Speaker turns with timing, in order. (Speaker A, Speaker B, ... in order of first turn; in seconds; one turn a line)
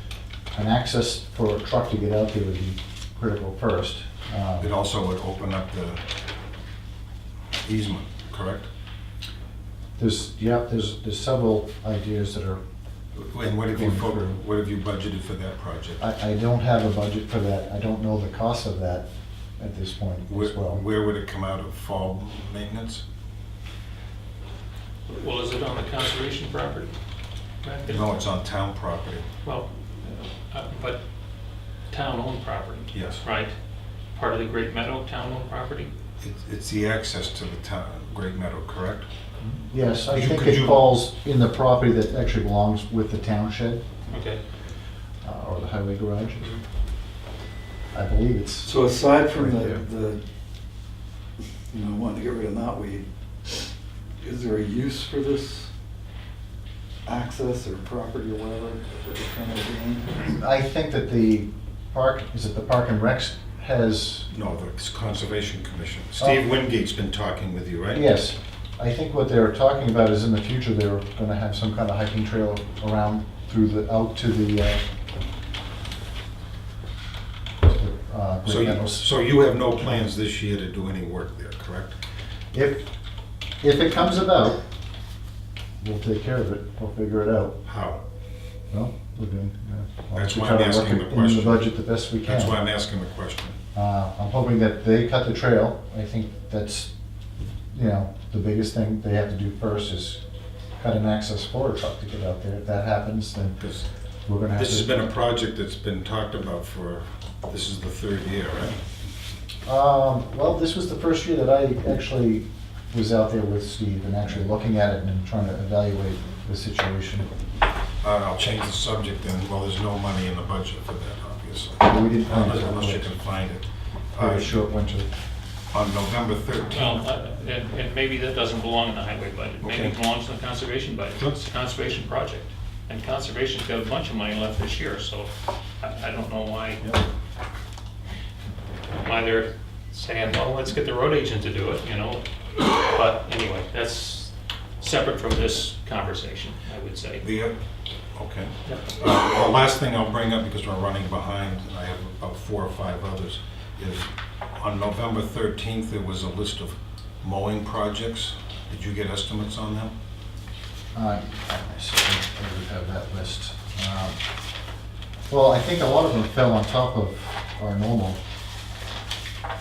Speaker A: 0.5-4.7
Speaker B: 4.6-6.0
Speaker B: 7.6-8.7
Speaker A: 10.0-12.6
Speaker B: 13.1-16.0
Speaker A: 13.7-14.4
Speaker A: 16.0-19.1
Speaker A: 19.6-20.8
Speaker B: 20.3-23.0
Speaker C: 25.1-26.9
Speaker C: 27.6-28.1
Speaker B: 27.9-29.2
Speaker C: 29.4-31.0
Speaker C: 31.9-33.5
Speaker B: 32.9-33.2
Speaker C: 34.1-35.9
Speaker B: 36.2-39.1
Speaker A: 39.6-43.8
Speaker B: 40.1-40.9
Speaker C: 44.1-44.4
Speaker A: 45.2-46.5
Speaker A: 47.9-48.8
Speaker D: 48.6-50.2
Speaker A: 49.3-49.8
Speaker D: 51.7-53.7
Speaker D: 54.2-55.7
Speaker D: 57.0-60.2
Speaker A: 60.2-64.3
Speaker B: 64.3-68.0
Speaker A: 67.9-74.8
Speaker A: 77.6-79.1
Speaker B: 78.4-82.0
Speaker A: 82.5-82.8
Speaker A: 83.6-84.6
Speaker A: 85.8-87.6
Speaker B: 87.6-88.0
Speaker A: 88.7-92.6
Speaker B: 90.1-91.7
Speaker B: 92.2-93.6
Speaker A: 93.7-96.9
Speaker A: 97.7-100.2
Speaker A: 100.8-103.6
Speaker B: 103.6-103.8
Speaker A: 104.2-105.0
Speaker B: 104.5-108.8
Speaker A: 109.7-117.3
Speaker B: 118.0-124.5
Speaker A: 121.8-123.1
Speaker A: 124.2-125.1
Speaker B: 125.7-127.0
Speaker C: 126.7-136.8
Speaker B: 129.6-129.9
Speaker B: 131.2-131.4
Speaker C: 139.0-147.2
Speaker B: 147.2-147.6
Speaker B: 148.1-159.9
Speaker A: 160.9-164.2
Speaker A: 165.3-168.2